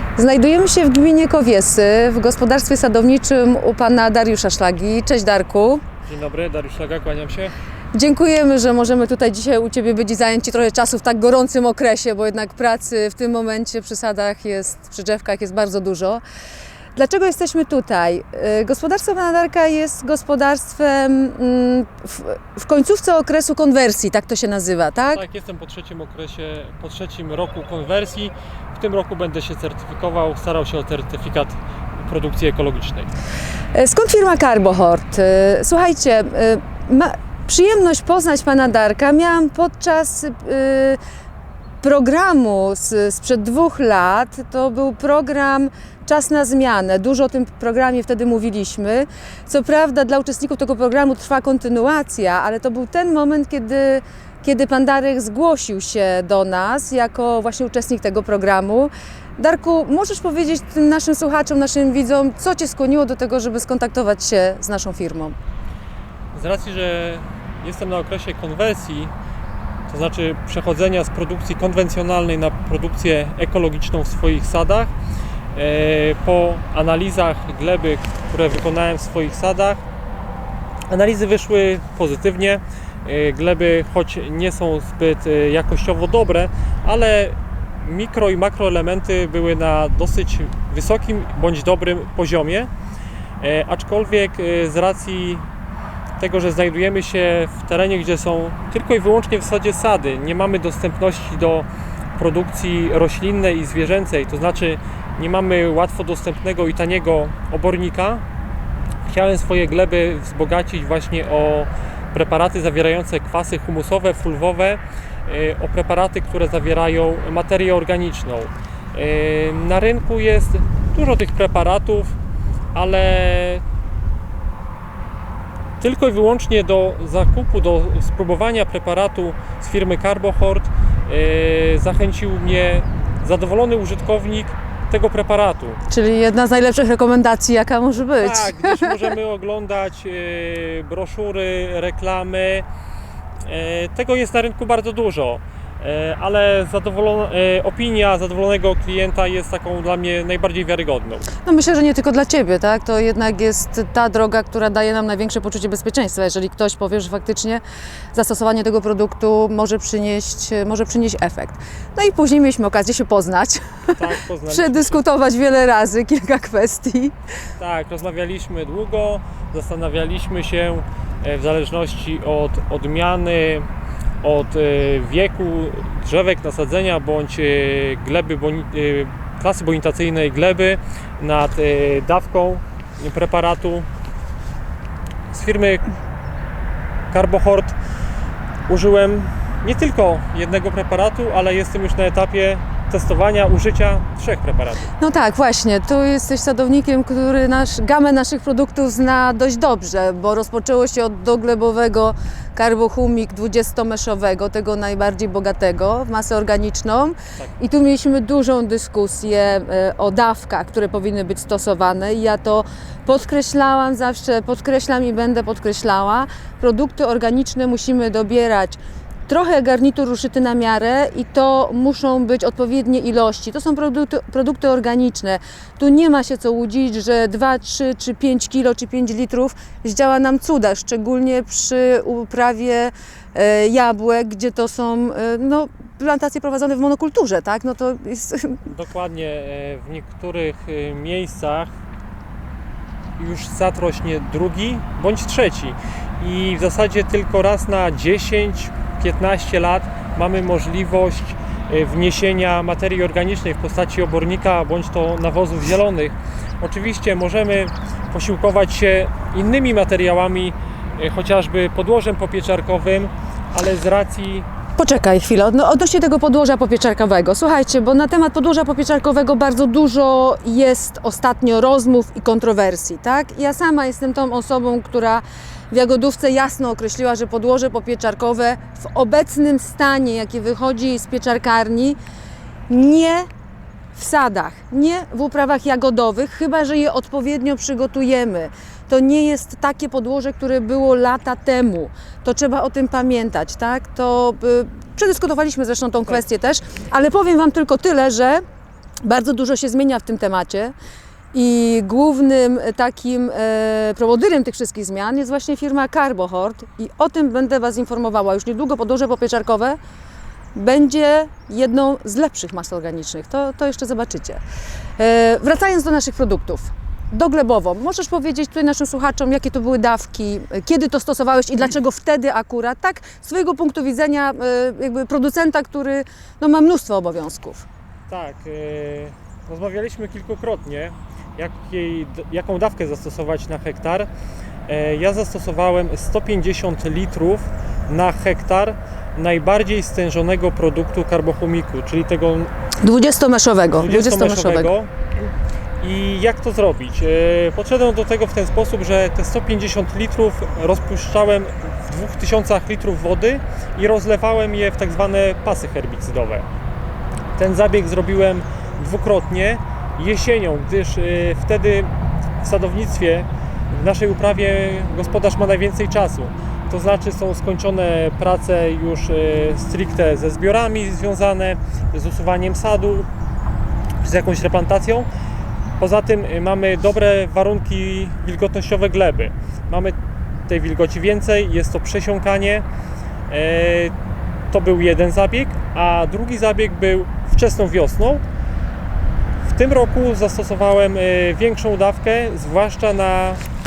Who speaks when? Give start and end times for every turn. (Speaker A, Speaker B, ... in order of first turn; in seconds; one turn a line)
Speaker A: 0.1-5.8
Speaker B: 6.0-7.5
Speaker A: 7.9-16.2
Speaker A: 16.9-25.2
Speaker B: 25.1-33.1
Speaker A: 33.7-41.0
Speaker A: 41.8-65.3
Speaker B: 66.3-69.1
Speaker B: 69.9-74.9
Speaker B: 75.5-79.8
Speaker B: 80.9-92.7
Speaker B: 93.4-95.5
Speaker B: 96.2-108.2
Speaker B: 109.0-122.2
Speaker B: 122.7-123.6
Speaker B: 125.8-135.8
Speaker A: 135.9-139.1
Speaker B: 138.2-142.7
Speaker B: 143.4-151.3
Speaker A: 151.4-157.6
Speaker A: 158.1-167.1
Speaker B: 163.9-165.0
Speaker B: 167.6-173.7
Speaker B: 174.2-183.9
Speaker B: 185.3-185.8
Speaker B: 187.1-187.7
Speaker B: 188.7-194.9
Speaker A: 195.0-238.6
Speaker B: 238.7-241.7
Speaker B: 243.2-264.5
Speaker A: 264.8-282.0
Speaker A: 282.7-283.3
Speaker A: 283.9-298.4
Speaker A: 299.0-300.7
Speaker A: 301.3-309.8
Speaker A: 310.5-314.4
Speaker A: 315.0-327.7
Speaker B: 328.1-334.1
Speaker B: 334.7-342.5
Speaker A: 342.8-344.7
Speaker B: 343.8-344.9
Speaker B: 345.8-356.5
Speaker B: 357.4-373.1
Speaker B: 374.0-375.1
Speaker B: 375.8-379.9
Speaker B: 380.5-382.6
Speaker B: 383.3-383.9
Speaker B: 384.5-388.2
Speaker B: 389.4-393.4